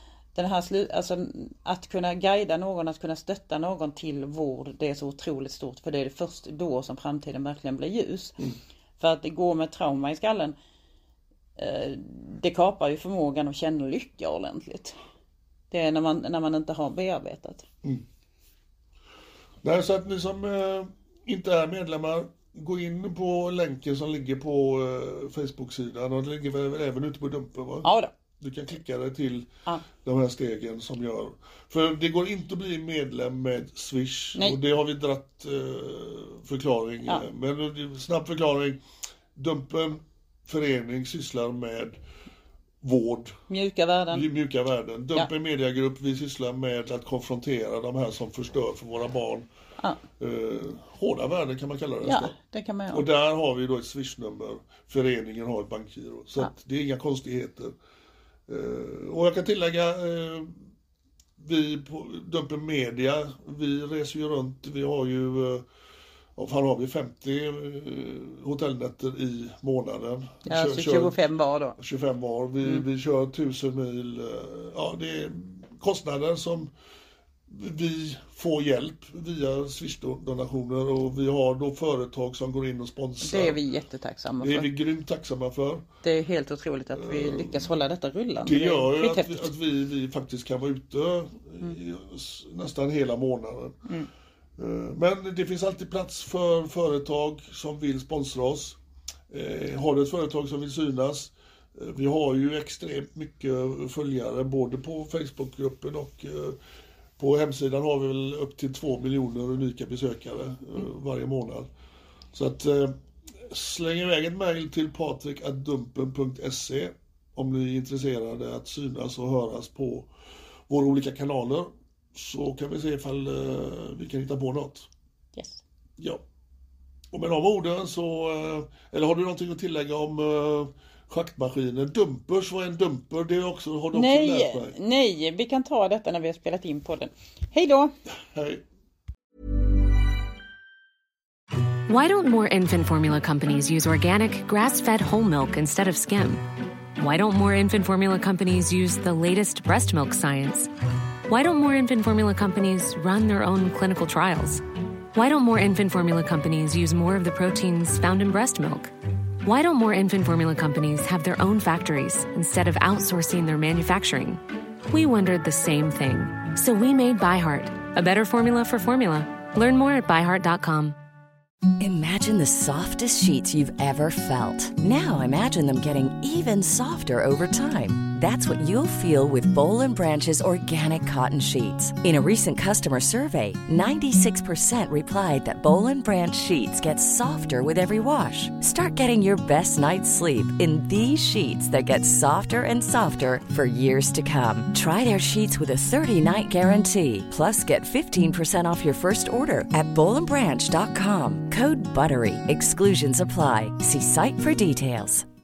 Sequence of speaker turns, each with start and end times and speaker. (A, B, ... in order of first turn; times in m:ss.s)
0:00.4-0:08.4 A
0:09.0-0:10.6 A
0:11.6-0:15.0 A
0:15.7-0:17.7 A
0:19.6-0:38.8 B
0:27.8-0:28.1 A
0:39.4-0:42.0 B
0:42.8-0:43.4 B
0:43.5-0:44.2 A
0:44.1-0:49.5 B
0:50.2-0:52.4 B
0:52.0-0:53.0 A
0:52.9-0:57.7 B
0:58.5-1:00.6 B
1:01.4-1:05.7 B
1:06.4-1:11.2 B
1:10.4-1:11.8 A
1:11.8-1:16.7 B
1:17.5-1:23.6 B
1:23.2-1:24.7 A
1:24.4-1:25.8 B
1:26.0-1:29.5 A
1:26.9-1:27.7 B
1:28.4-1:33.8 B
1:34.6-1:38.8 B
1:39.3-1:46.6 B
1:47.2-1:51.7 B
1:52.3-2:00.1 B
2:00.7-2:04.9 B
2:05.4-2:05.6 A
2:06.0-2:06.2 B
2:07.1-2:14.8 B
2:13.9-2:17.9 A
2:18.2-2:18.6 B
2:21.9-2:26.4 C
2:27.0-2:30.7 C
2:31.3-2:34.6 C
2:35.1-2:38.9 C
2:39.4-2:51.0 C
2:51.8-3:25.3 D